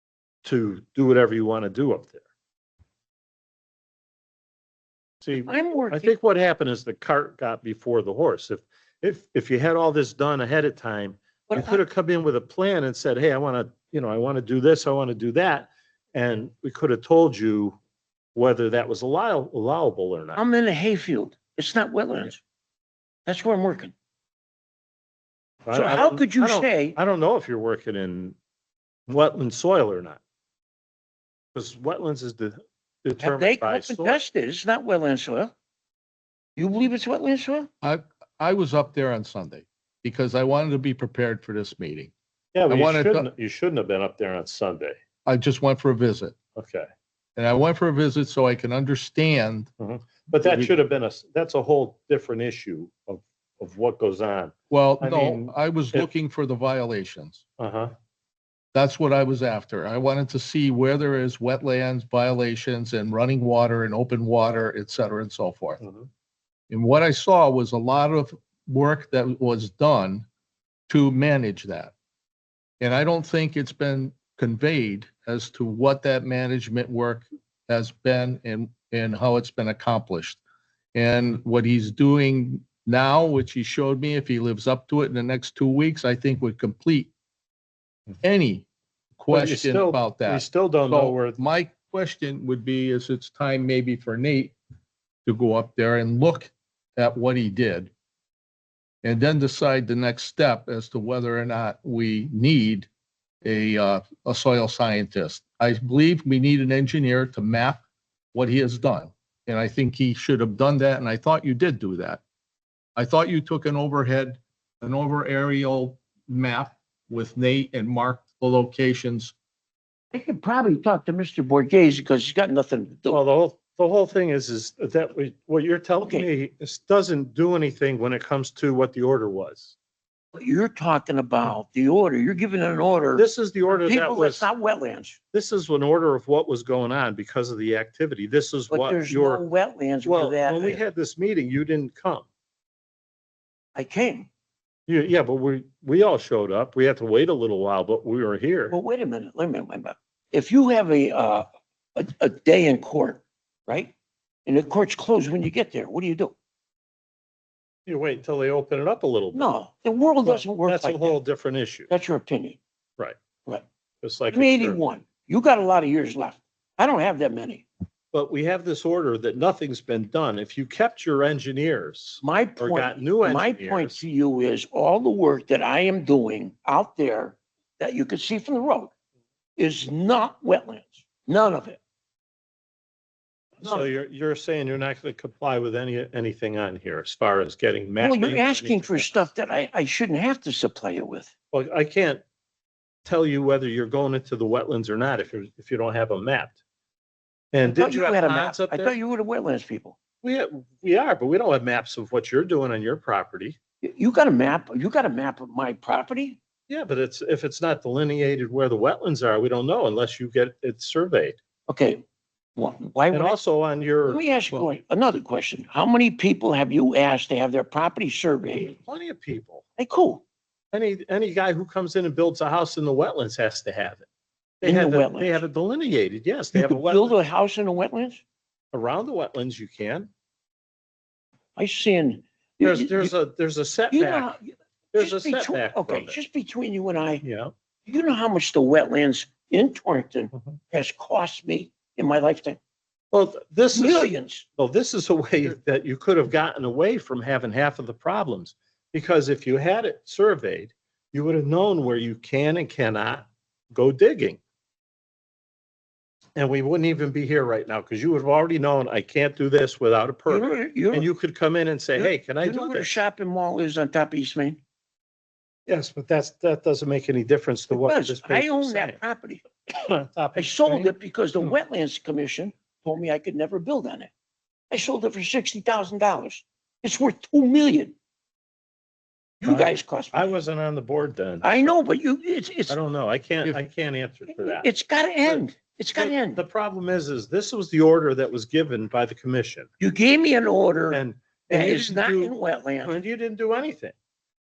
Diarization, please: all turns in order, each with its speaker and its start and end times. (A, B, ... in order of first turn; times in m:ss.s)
0:00.4-0:02.2 A
0:05.2-0:17.8 A
0:05.4-0:06.1 B
0:11.5-0:11.8 B
0:18.3-0:20.4 A
0:20.4-0:22.4 B
0:23.2-0:23.9 B
0:25.6-0:28.4 A
0:25.7-0:27.0 B
0:29.1-0:30.2 A
0:31.5-0:34.2 A
0:33.2-0:35.5 B
0:36.6-0:37.7 B
0:37.8-0:42.1 C
0:42.5-0:45.0 A
0:42.7-0:43.3 C
0:45.2-0:46.4 C
0:46.5-0:46.9 A
0:47.4-0:49.7 C
0:49.8-0:56.1 A
0:50.4-0:50.7 C
0:54.7-0:57.4 C
0:57.6-0:57.9 A
0:58.7-1:05.8 C
1:05.8-1:06.1 A
1:06.7-1:10.2 C
1:10.9-1:11.9 C
1:12.8-1:20.4 C
1:20.9-1:27.1 C
1:28.2-1:28.7 C
1:29.2-1:34.5 C
1:29.3-1:31.3 A
1:35.2-1:37.9 C
1:39.0-1:42.9 C
1:43.4-1:47.8 C
1:48.3-1:52.2 C
1:53.0-1:59.3 C
2:00.1-2:03.2 B
2:03.1-2:09.7 A
2:06.0-2:06.3 B
2:10.3-2:15.2 B
2:13.2-2:14.5 A
2:15.3-2:19.4 A
2:18.7-2:20.8 B
2:20.0-2:22.3 A
2:23.7-2:24.3 B
2:24.9-2:28.8 A
2:28.7-2:33.9 B
2:34.4-2:36.3 B
2:37.8-2:39.5 A
2:39.3-2:41.2 B
2:40.2-2:41.9 A
2:41.9-2:42.6 B
2:44.0-2:44.8 A
2:44.3-2:47.7 B
2:48.1-2:54.0 A
2:52.2-2:58.9 B
2:59.6-3:01.8 B
3:03.6-3:03.8 B
3:03.6-3:09.3 A
3:08.0-3:11.3 B
3:11.5-3:12.2 A
3:13.0-3:16.6 A
3:17.5-3:18.9 A
3:17.6-3:20.0 B
3:20.2-3:23.6 A
3:23.8-3:26.4 B
3:26.7-3:31.4 A
3:31.7-3:32.0 B
3:32.6-3:33.4 B
3:33.1-3:34.2 A
3:34.1-3:38.8 B
3:38.8-3:39.6 A
3:39.8-3:40.2 B
3:40.7-3:44.0 A
3:44.6-3:45.4 B
3:44.6-3:47.1 A
3:46.5-3:48.2 B
3:48.7-3:50.1 A
3:51.6-3:53.1 B
3:52.6-3:54.3 A
3:53.9-3:57.2 B
3:54.9-3:56.2 A
3:57.2-3:57.5 A
3:57.9-4:02.6 B
4:03.1-4:14.4 A
4:03.7-4:04.4 B
4:16.4-4:23.0 A
4:20.3-4:21.1 B
4:22.0-4:24.6 B
4:25.6-4:29.0 A
4:27.7-4:29.4 B
4:29.7-4:31.5 A
4:30.3-4:34.1 B
4:34.7-4:37.9 B
4:39.4-4:40.3 B
4:39.4-4:41.8 A
4:41.4-4:42.8 B
4:42.7-4:44.7 A
4:44.3-4:46.4 B
4:45.9-4:49.7 A
4:49.8-4:52.9 B
4:50.9-4:53.9 A